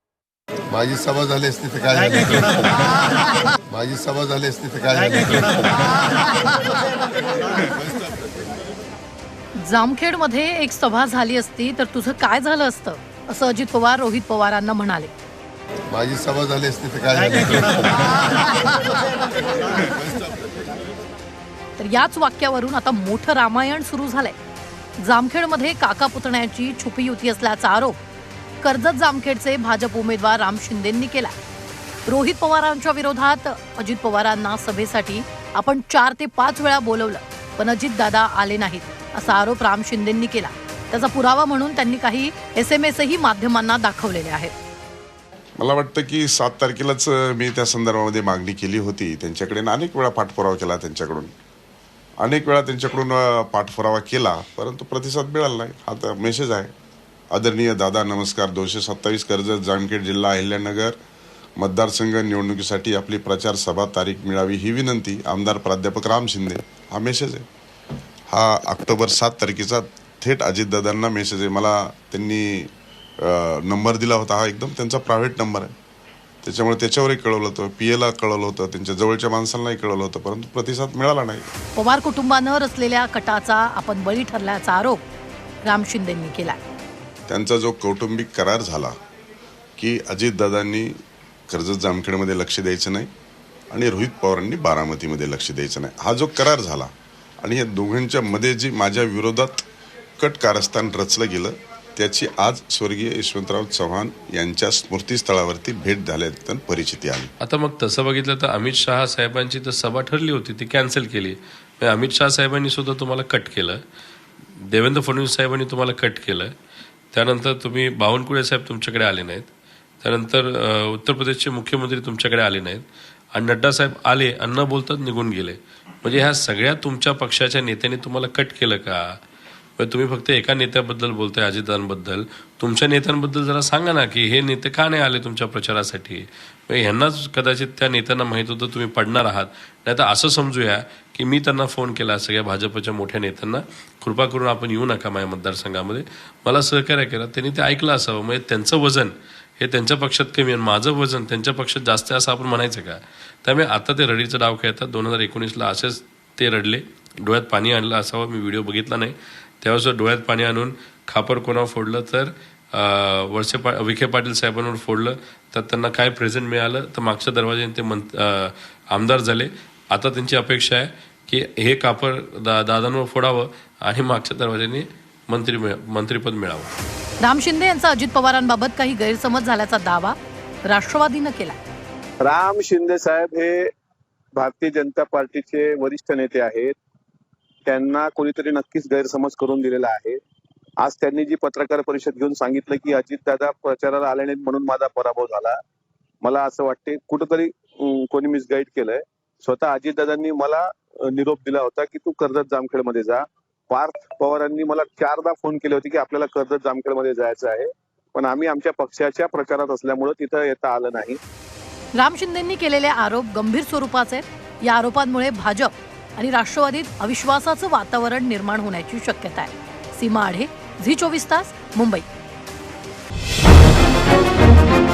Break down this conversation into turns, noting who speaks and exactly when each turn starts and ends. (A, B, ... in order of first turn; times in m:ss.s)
0:00.7-0:03.0 A
0:03.7-0:06.1 A
0:07.5-0:08.1 A
0:09.6-0:15.1 B
0:15.9-0:18.4 A
0:19.8-0:20.2 A
0:21.8-0:24.4 B
0:25.0-0:28.0 B
0:28.6-0:31.4 B
0:32.1-0:44.5 B
0:45.6-0:51.3 C
0:52.2-0:56.7 C
0:57.3-1:01.0 C
1:01.6-1:07.5 C
1:08.3-1:15.7 C
1:16.4-1:21.5 C
1:21.8-1:25.0 B
1:25.7-1:26.6 B
1:27.3-1:28.9 C
1:29.8-1:31.0 C
1:31.5-1:33.1 C
1:33.7-1:36.9 C
1:37.4-1:39.7 C
1:40.2-1:47.3 C
1:47.4-1:53.8 D
1:54.6-1:56.5 D
1:57.1-1:59.5 D
2:00.0-2:09.2 D
2:09.8-2:56.7 D
2:57.2-3:01.6 B
3:02.2-3:03.7 E
3:04.4-3:06.8 E
3:07.7-3:10.2 E
3:10.8-3:15.6 E
3:16.2-3:31.2 E
3:32.0-3:42.1 B